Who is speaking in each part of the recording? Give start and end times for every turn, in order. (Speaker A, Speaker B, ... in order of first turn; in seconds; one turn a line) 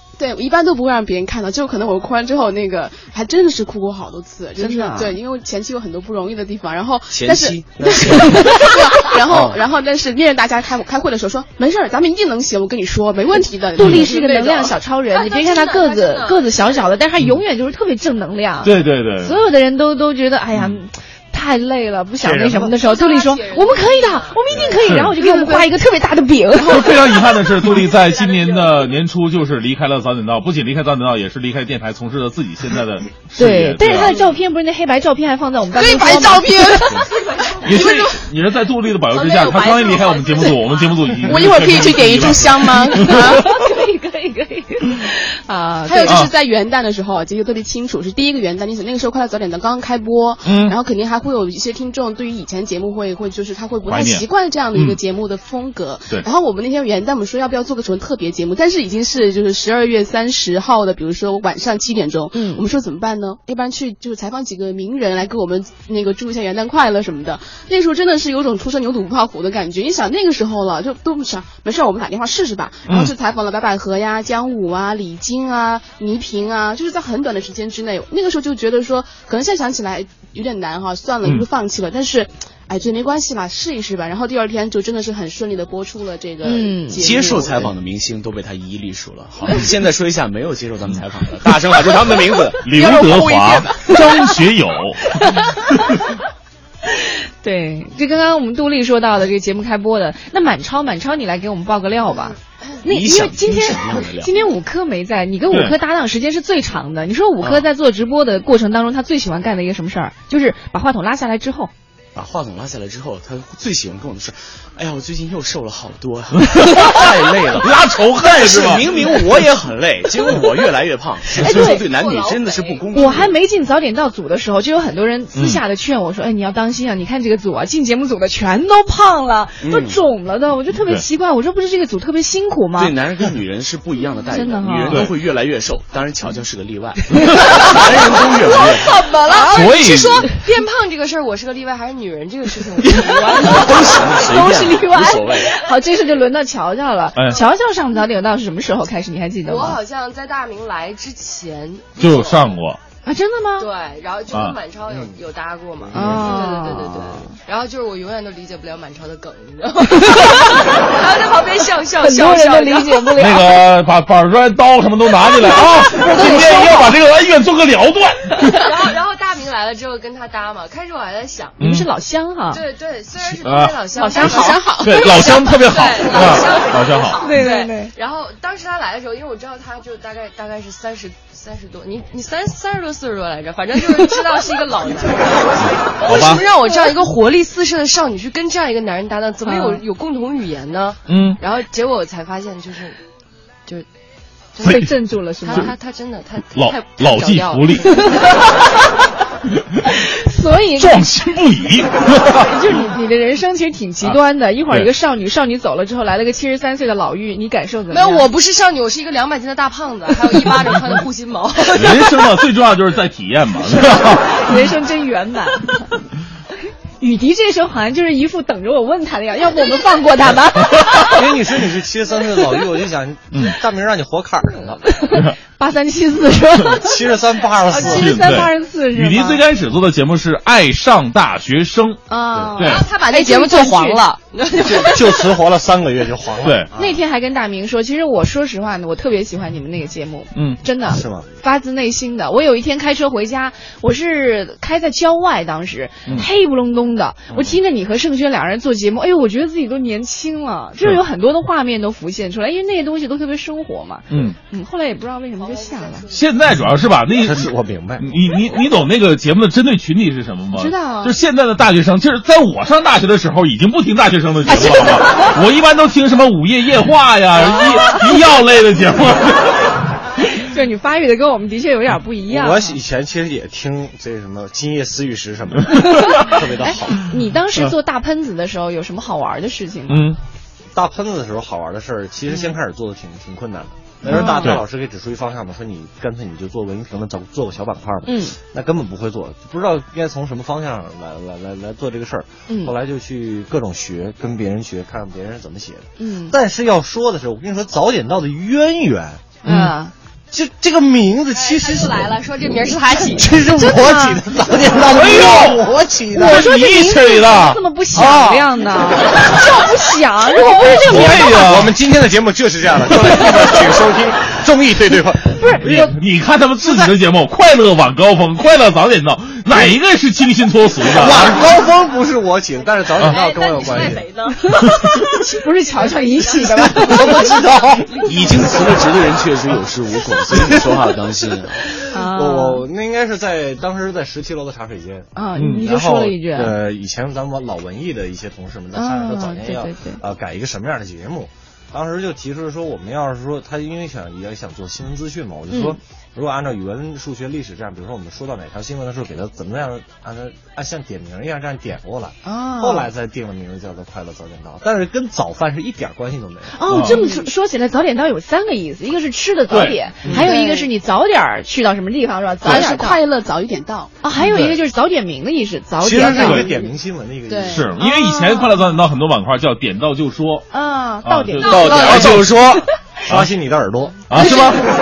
Speaker A: 0.2-14.8
Speaker B: 4.6-5.2
Speaker C: 7.1-8.7
Speaker C: 9.2-9.7
Speaker B: 13.7-27.0
Speaker D: 13.8-14.0
Speaker E: 15.1-16.9
Speaker D: 18.6-19.4
Speaker D: 20.5-20.8
Speaker D: 22.2-22.7
Speaker E: 22.6-24.9
Speaker D: 24.7-25.2
Speaker A: 25.3-25.6
Speaker D: 26.6-34.1
Speaker E: 27.6-28.9
Speaker B: 33.4-36.9
Speaker A: 35.7-37.0
Speaker E: 37.1-37.9
Speaker D: 37.6-43.3
Speaker A: 37.7-38.1
Speaker E: 39.1-41.1
Speaker A: 41.2-43.4
Speaker B: 43.3-46.3
Speaker A: 45.8-87.7
Speaker D: 50.4-50.7
Speaker D: 53.9-55.0
Speaker B: 62.3-62.6
Speaker D: 72.9-73.1
Speaker B: 86.4-87.1
Speaker C: 87.0-92.6
Speaker D: 92.6-95.0
Speaker B: 92.7-94.2
Speaker B: 97.4-111.7
Speaker C: 102.8-104.4
Speaker D: 105.5-105.8
Speaker C: 107.4-107.7
Speaker C: 112.1-123.4
Speaker D: 116.5-116.8
Speaker D: 117.6-118.8
Speaker B: 118.9-119.2
Speaker B: 121.4-121.9
Speaker E: 121.7-123.1
Speaker B: 122.9-133.0
Speaker D: 125.3-125.6
Speaker C: 129.6-130.0
Speaker C: 132.8-139.0
Speaker B: 134.3-135.1
Speaker B: 137.4-139.6
Speaker E: 139.2-143.8
Speaker D: 139.5-140.2
Speaker B: 143.1-149.8
Speaker C: 143.3-145.5
Speaker D: 147.1-147.4
Speaker E: 149.4-152.5
Speaker D: 152.0-152.8
Speaker B: 153.0-153.7
Speaker E: 153.6-163.1
Speaker F: 154.9-155.2
Speaker B: 155.9-157.3
Speaker B: 162.0-163.6
Speaker D: 163.2-168.6
Speaker B: 165.4-167.0
Speaker E: 168.6-171.6
Speaker D: 171.6-171.9
Speaker B: 171.6-172.6
Speaker E: 172.5-193.0
Speaker D: 173.3-173.8
Speaker B: 174.0-174.6
Speaker A: 174.2-175.5
Speaker D: 174.8-177.2
Speaker B: 177.2-177.9
Speaker D: 186.1-186.4
Speaker B: 189.4-189.8
Speaker D: 191.1-191.4
Speaker E: 194.6-198.5
Speaker B: 194.6-195.7
Speaker D: 196.5-197.9
Speaker B: 200.2-201.1
Speaker D: 200.8-202.5
Speaker B: 202.5-208.3
Speaker E: 207.9-212.3
Speaker D: 211.7-214.2
Speaker B: 213.8-215.7
Speaker B: 217.0-221.3
Speaker D: 220.6-221.1
Speaker F: 221.1-224.9
Speaker B: 224.8-229.4
Speaker F: 226.8-228.3
Speaker E: 227.2-227.6
Speaker D: 227.8-232.0
Speaker B: 232.1-234.2
Speaker D: 232.6-232.9
Speaker E: 232.6-235.4
Speaker F: 234.6-237.0
Speaker D: 236.4-236.7
Speaker B: 236.7-256.1
Speaker D: 240.3-240.6
Speaker F: 240.8-241.3
Speaker D: 254.1-254.3
Speaker E: 255.4-256.2
Speaker D: 256.1-269.5
Speaker F: 257.1-258.2
Speaker B: 260.5-261.1
Speaker B: 264.5-265.2
Speaker B: 267.5-268.0
Speaker B: 270.3-272.8
Speaker F: 272.3-275.8
Speaker B: 275.9-280.1
Speaker F: 276.3-276.9
Speaker D: 279.9-280.2
Speaker F: 280.7-299.4
Speaker B: 282.3-282.5
Speaker B: 284.1-284.6
Speaker D: 284.2-284.6
Speaker B: 288.0-288.3
Speaker B: 292.5-292.7
Speaker B: 296.0-296.4
Speaker B: 299.4-299.9
Speaker D: 299.4-299.7
Speaker F: 300.3-306.1
Speaker E: 301.3-303.4
Speaker B: 303.4-304.3
Speaker D: 304.8-305.6
Speaker B: 306.1-311.5
Speaker D: 306.1-308.3
Speaker F: 310.8-315.4
Speaker D: 310.9-311.7
Speaker B: 315.3-315.9
Speaker D: 315.6-321.4
Speaker F: 316.6-316.9
Speaker F: 319.5-319.8
Speaker F: 320.8-324.1
Speaker E: 323.0-324.4
Speaker B: 325.0-327.5
Speaker E: 325.7-328.6
Speaker F: 326.4-327.8
Speaker C: 328.0-331.6
Speaker B: 331.9-332.6
Speaker F: 332.0-356.6
Speaker B: 335.1-336.6
Speaker D: 335.4-335.7
Speaker B: 338.7-340.0
Speaker B: 345.5-345.8
Speaker B: 352.2-352.9
Speaker B: 356.5-363.0
Speaker D: 356.7-357.0
Speaker A: 356.9-357.3
Speaker D: 359.5-360.3
Speaker A: 360.1-360.7
Speaker A: 362.4-363.9
Speaker B: 364.0-366.6
Speaker D: 364.1-364.6
Speaker F: 365.8-367.7
Speaker D: 365.9-366.5
Speaker A: 367.3-367.6
Speaker D: 367.5-370.5
Speaker B: 367.8-368.6
Speaker B: 370.5-372.4
Speaker D: 371.0-373.3
Speaker E: 371.5-371.8
Speaker C: 372.0-372.5
Speaker F: 373.1-374.2
Speaker D: 374.1-374.6
Speaker B: 374.1-374.6